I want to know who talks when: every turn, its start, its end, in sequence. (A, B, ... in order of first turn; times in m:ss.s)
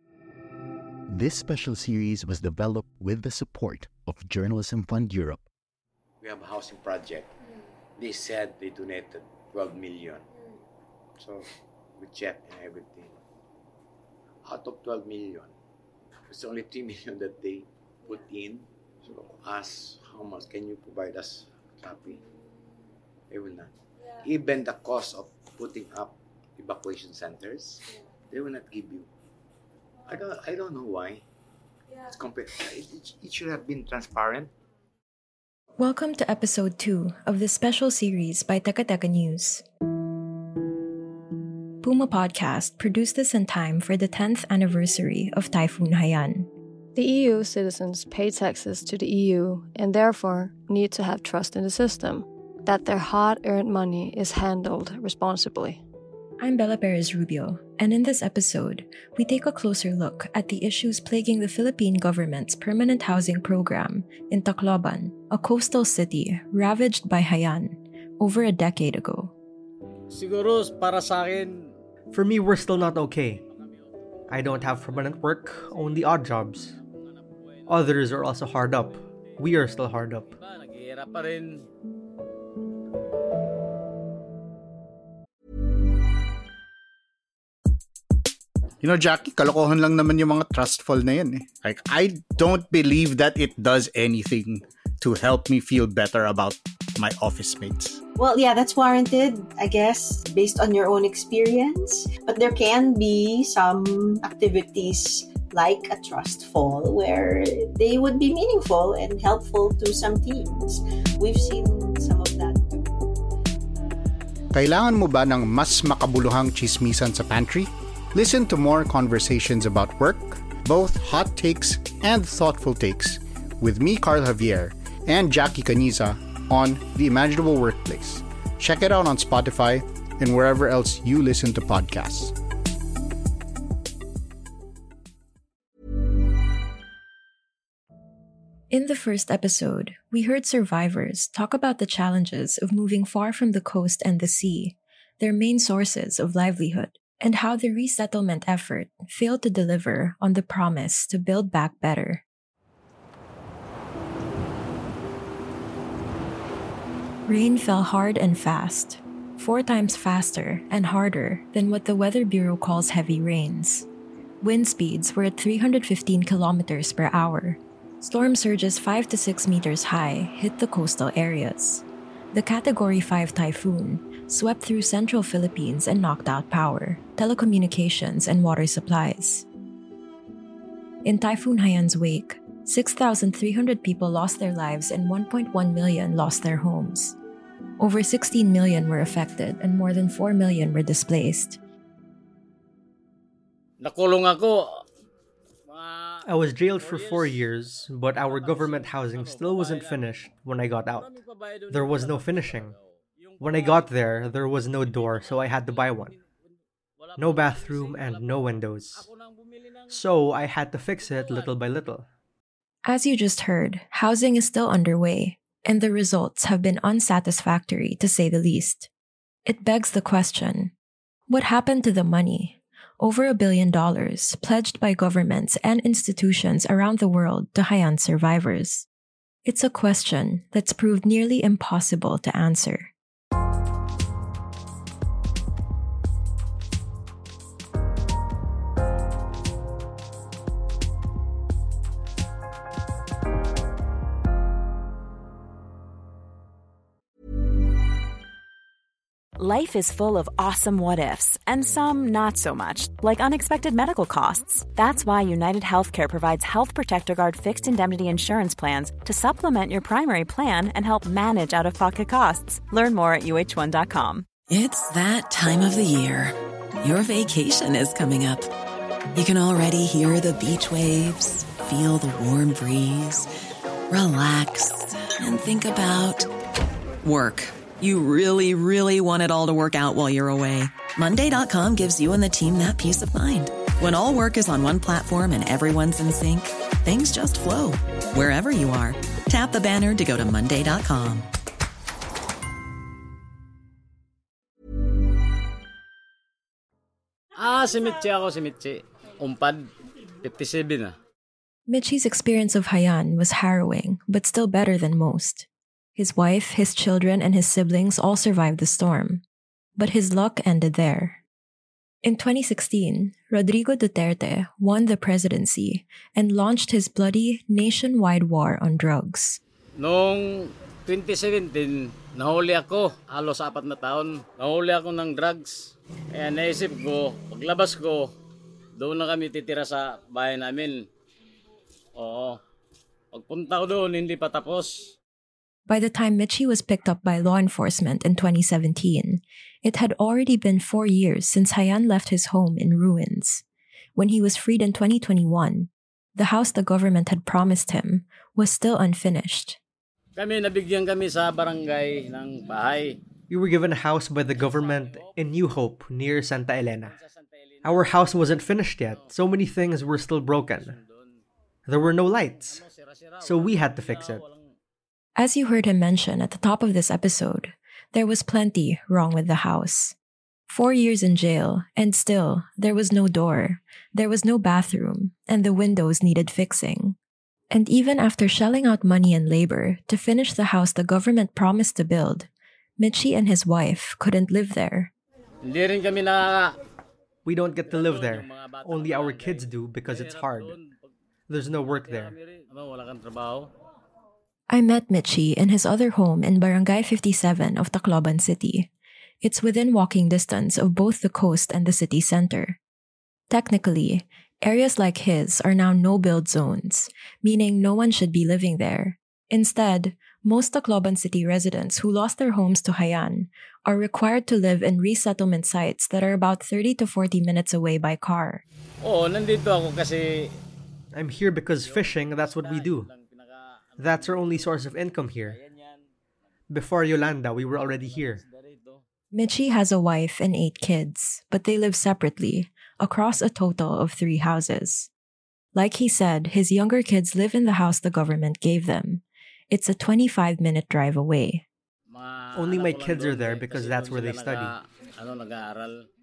0:01.1-0:05.4 A
0:06.2-0:07.3 B
0:08.0-0:10.3 B
0:11.2-0:13.2 B
0:14.4-0:15.5 B
0:16.3-0:22.2 B
0:23.3-0:29.1 B
0:30.0-0:31.2 B
0:32.0-0:34.5 B
0:35.8-0:39.6 C
0:41.8-0:46.5 C
0:46.9-0:55.8 D
0:56.4-1:09.3 C
1:10.1-1:11.7 E
1:12.1-1:13.4 F
1:14.3-1:16.7 F
1:17.7-1:20.3 F
1:20.4-1:21.6 E
1:28.8-1:38.0 G
1:38.2-1:52.9 H
1:54.5-2:12.3 G
2:18.7-2:32.2 C
2:37.2-2:43.9 C
2:44.4-2:59.4 C
3:01.0-3:07.2 C
3:07.8-3:11.6 C
3:13.8-3:14.8 E
3:15.7-3:16.2 E
3:16.2-3:21.2 F
3:16.8-3:17.4 E
3:18.3-3:19.9 E
3:21.0-3:22.5 E
3:21.7-3:22.7 F
3:23.4-3:23.8 E
3:23.4-3:26.1 F
3:27.1-3:28.2 E
3:27.2-3:29.1 F
3:29.9-3:32.1 F
3:32.8-3:38.9 C
3:39.4-3:40.7 C
3:41.3-3:48.9 C
3:49.4-3:52.9 C
4:09.3-4:24.3 I
4:24.5-4:28.5 J
4:29.1-4:33.3 J
4:33.9-4:36.3 J
4:37.0-4:51.3 J
4:57.4-4:59.7 E
5:00.2-5:00.9 E
5:01.7-5:09.2 C
5:09.8-5:11.2 C
5:12.0-5:19.4 C
5:19.8-5:28.1 E
5:28.8-5:30.8 E
5:32.0-5:32.4 E
5:33.1-5:34.9 E
5:35.7-5:43.4 C
5:44.0-5:49.6 C
5:50.2-5:53.0 E
5:53.3-5:57.0 F
5:54.4-5:55.1 E
5:57.6-6:00.8 F
6:01.7-6:02.6 F
6:02.4-6:04.4 E
6:03.2-6:04.2 F
6:05.2-6:09.9 C
6:10.5-6:17.0 C
6:17.5-6:24.9 C
6:25.4-6:26.5 E
6:27.2-6:30.6 F
6:27.7-6:30.7 E
6:31.3-6:32.1 F
6:31.8-6:33.5 E
6:34.5-6:38.7 C
6:39.2-6:42.6 C
6:43.3-6:58.4 C
6:58.8-7:00.3 E
7:00.9-7:02.9 F
7:01.5-7:04.7 E
7:03.8-7:05.4 F
7:05.2-7:05.7 E
7:06.5-7:08.2 F
7:07.7-7:08.8 E
7:09.1-7:14.9 C
7:15.5-7:21.4 C
7:21.9-7:25.8 E
7:22.3-7:24.5 F